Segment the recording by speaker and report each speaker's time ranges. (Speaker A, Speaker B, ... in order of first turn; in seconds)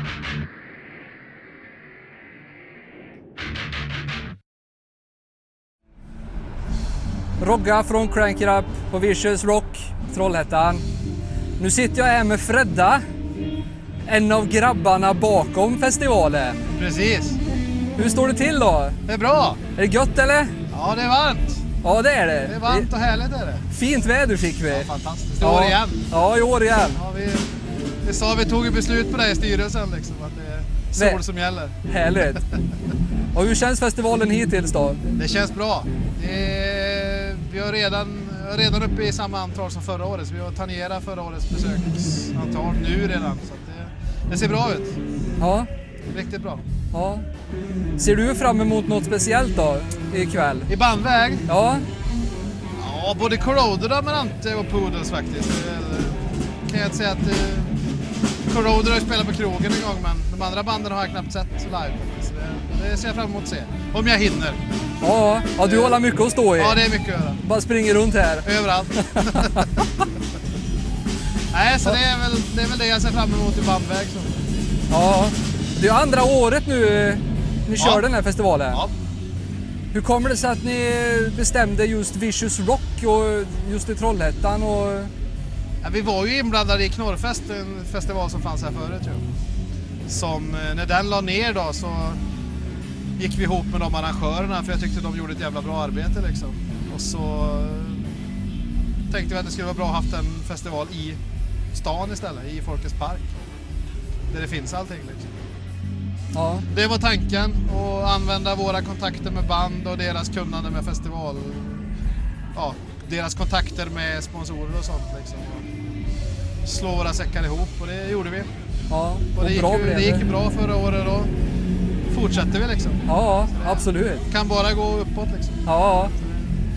Speaker A: 7.4-10.8, 11.6-13.0, 14.1-16.7, 18.0-19.0, 19.8-20.5, 21.8-22.9, 23.7-24.9, 25.4-27.0, 31.0-31.2, 31.9-32.4, 33.3-35.0, 45.4-45.7, 46.9-47.2, 48.0-50.7, 51.5-51.8, 65.0-66.8, 67.4-68.5, 69.0-69.7, 74.9-78.8, 79.9-85.1, 106.3-106.7, 118.9-120.2, 123.1-124.3, 125.7-126.1
Speaker B: 16.8-17.4, 19.1-19.6, 20.7-21.6, 22.4-23.6, 24.7-26.1, 26.9-27.5, 28.0-31.8, 35.2-45.0, 46.1-46.6, 50.7-51.5, 52.8-56.2, 56.7-57.7, 58.5-64.6, 65.6-66.0, 66.5-67.4, 68.4-69.7, 71.5-74.4, 77.8-78.0, 85.8-89.2, 90.1-92.2, 93.2-98.1, 99.1-101.2, 101.7-103.4, 104.3-105.4, 106.7-111.9, 112.5-115.7, 116.6-118.5, 119.3-121.3, 122.1-125.7